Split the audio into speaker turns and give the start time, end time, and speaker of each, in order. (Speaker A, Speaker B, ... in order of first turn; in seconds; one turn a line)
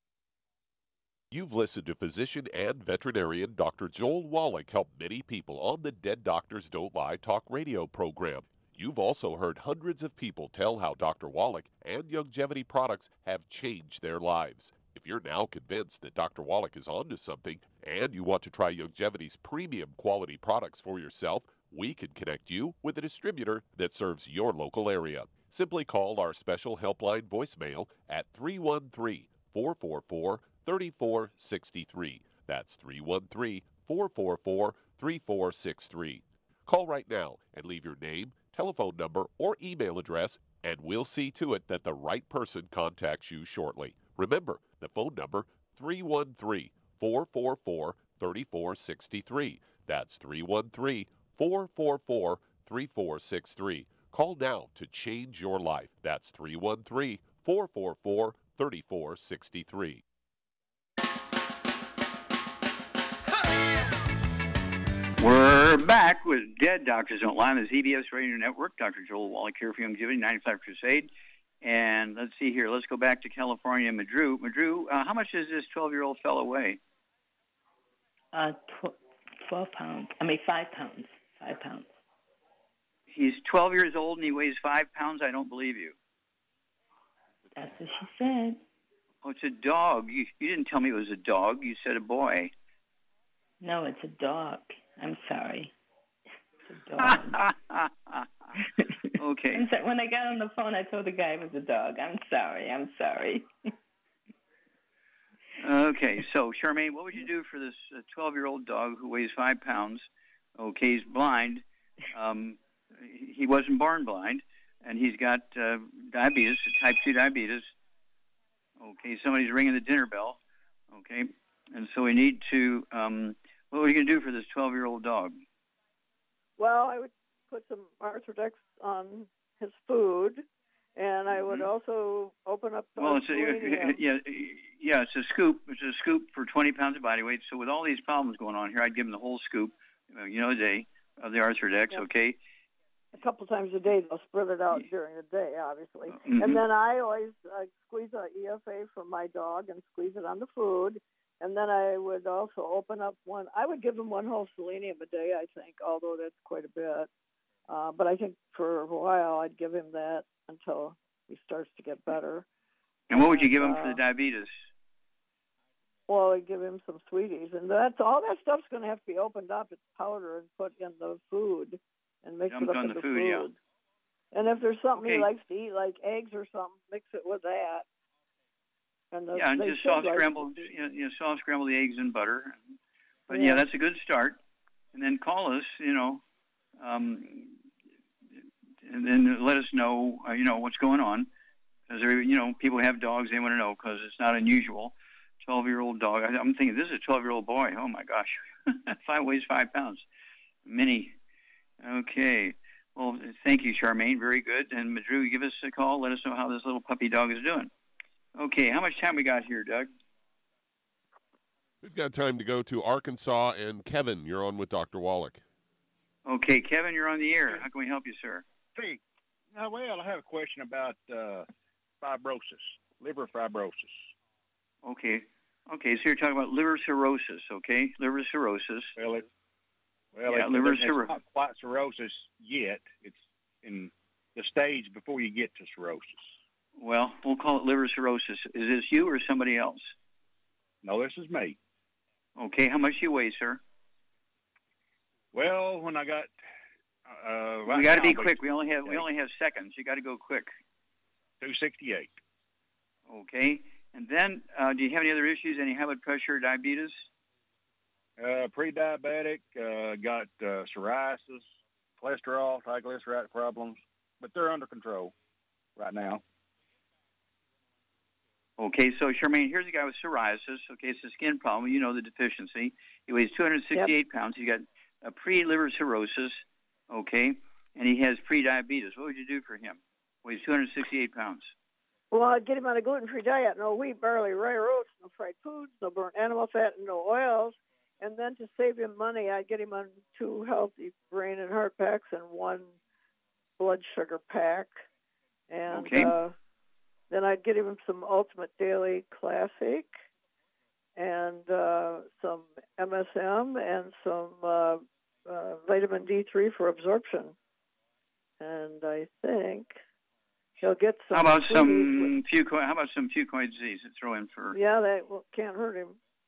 Speaker A: 1.3-60.0
Speaker B: 65.2-71.1
Speaker B: 71.6-76.8
Speaker C: 78.3-81.9
Speaker B: 83.1-86.0
Speaker C: 87.5-88.6
Speaker B: 89.2-92.5
Speaker C: 93.6-95.7
Speaker C: 96.7-97.5
Speaker B: 97.0-98.5
Speaker B: 99.1-99.6
Speaker C: 99.5-103.5
Speaker B: 105.6-110.0
Speaker B: 110.6-117.7
Speaker B: 118.8-120.4
Speaker B: 120.9-125.4
Speaker D: 126.6-130.4
Speaker D: 130.9-134.0
Speaker B: 131.3-131.7
Speaker B: 133.0-142.4
Speaker D: 143.1-157.1
Speaker B: 146.1-146.6
Speaker D: 157.7-162.4
Speaker B: 163.1-164.5
Speaker D: 163.1-164.0
Speaker D: 166.1-173.6
Speaker B: 172.5-173.5
Speaker D: 174.3-177.8
Speaker B: 174.9-175.3
Speaker D: 179.1-180.6
Speaker B: 179.3-182.6
Speaker B: 183.3-184.4
Speaker D: 183.3-183.6
Speaker B: 184.9-186.2
Speaker B: 186.8-187.6
Speaker B: 188.8-191.3
Speaker B: 191.9-200.0
Speaker B: 200.7-201.2
Speaker B: 201.8-207.7
Speaker B: 208.3-209.9
Speaker A: 211.8-215.4
Speaker B: 216.2-218.4
Speaker E: 219.5-221.5
Speaker E: 222.0-224.0
Speaker B: 224.8-228.9
Speaker E: 228.9-229.2
Speaker E: 230.1-236.3
Speaker B: 230.3-231.2
Speaker B: 236.8-239.9
Speaker E: 240.8-241.6
Speaker B: 242.4-243.6
Speaker E: 245.3-246.3
Speaker E: 247.1-249.1
Speaker B: 247.7-250.5
Speaker E: 251.4-252.1
Speaker B: 253.1-257.0
Speaker E: 258.2-261.4
Speaker E: 262.0-265.1
Speaker E: 265.8-266.2
Speaker B: 268.6-281.5
Speaker D: 282.1-292.7
Speaker D: 293.6-294.7
Speaker D: 295.5-296.4
Speaker B: 295.7-296.1
Speaker D: 297.1-299.9
Speaker D: 300.9-307.4
Speaker D: 308.4-309.7
Speaker D: 310.6-312.1
Speaker B: 311.1-314.6
Speaker D: 314.5-316.0